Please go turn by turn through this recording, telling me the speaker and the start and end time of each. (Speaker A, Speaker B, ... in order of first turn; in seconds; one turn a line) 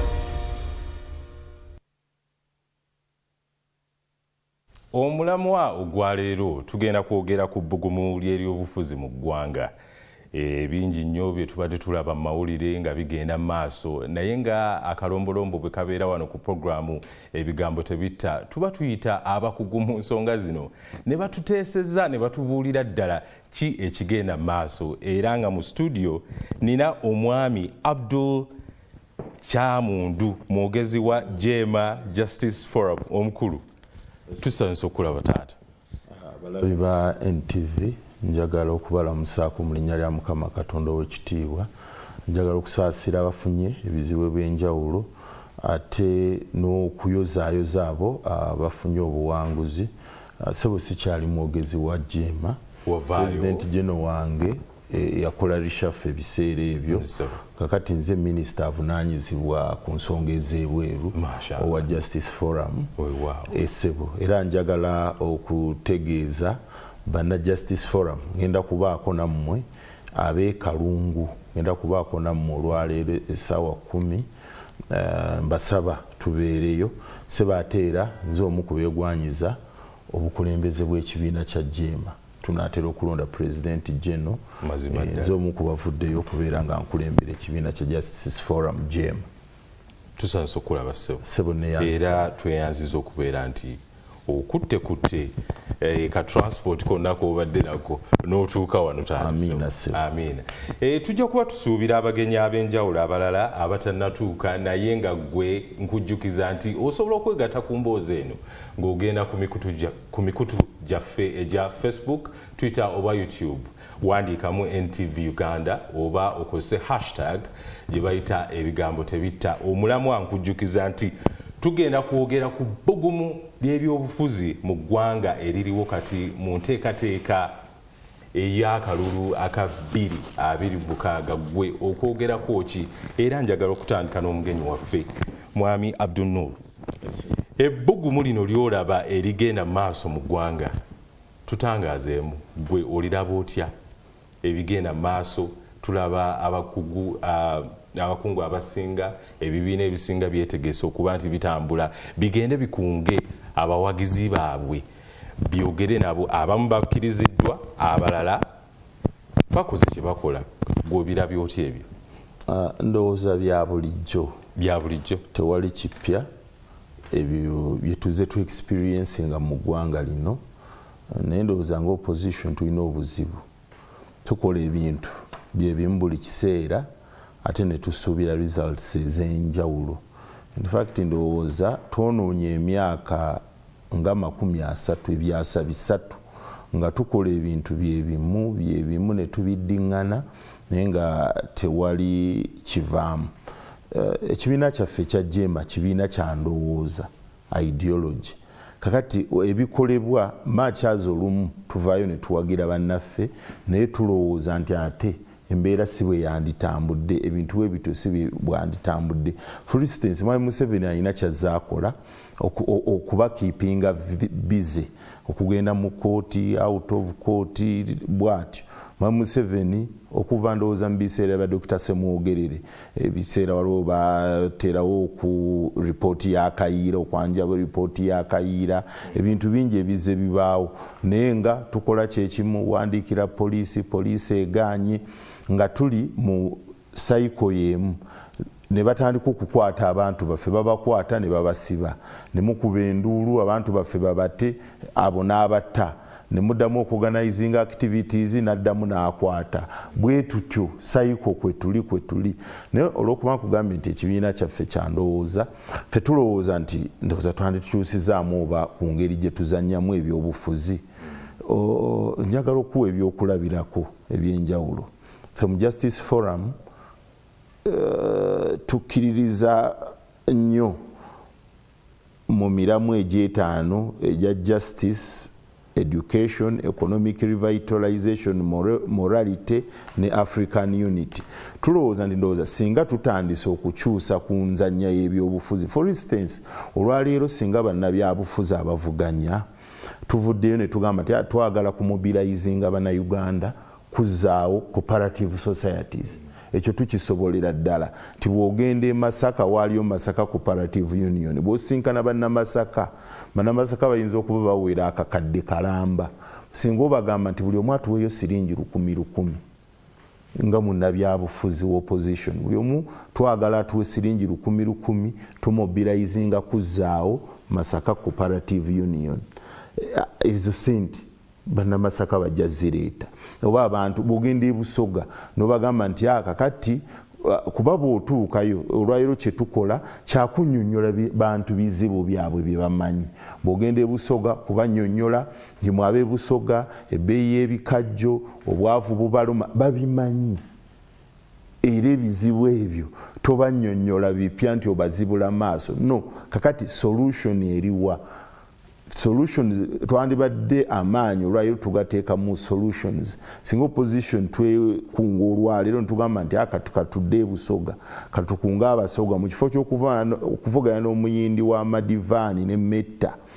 Speaker A: 4.9-9.7
Speaker A: 10.3-28.5
Speaker A: 29.4-33.6
Speaker A: 34.4-35.5
Speaker B: 36.1-41.7
Speaker B: 42.3-49.9
Speaker B: 50.4-52.6
Speaker A: 52.8-53.7
Speaker B: 53.1-62.9
Speaker A: 56.9-57.4
Speaker A: 61.1-61.9
Speaker A: 63.0-63.5
Speaker B: 63.5-74.3
Speaker B: 74.9-79.6
Speaker B: 80.1-89.2
Speaker A: 84.6-85.3
Speaker A: 90.2-91.2
Speaker B: 91.2-92.3
Speaker A: 91.8-127.5
Speaker B: 99.2-100.0
Speaker A: 128.3-136.6
Speaker A: 137.6-140.8
Speaker A: 141.5-143.7
Speaker A: 144.4-154.8
Speaker A: 155.4-158.4
Speaker A: 159.5-161.9
Speaker B: 162.5-164.3
Speaker A: 164.6-165.2
Speaker B: 165.3-166.2
Speaker B: 167.1-170.4
Speaker B: 171.1-173.4
Speaker B: 174.2-176.9
Speaker B: 177.4-180.0
Speaker B: 180.5-186.2
Speaker B: 186.7-193.3
Speaker B: 193.9-238.0
Speaker B: 238.7-260.8
Speaker B: 261.4-266.5
Speaker B: 267.6-270.8
Speaker B: 272.3-289.4
Speaker B: 290.1-309.4
Speaker B: 310.4-319.2
Speaker B: 319.8-340.4
Speaker B: 341.6-348.0
Speaker B: 348.9-363.1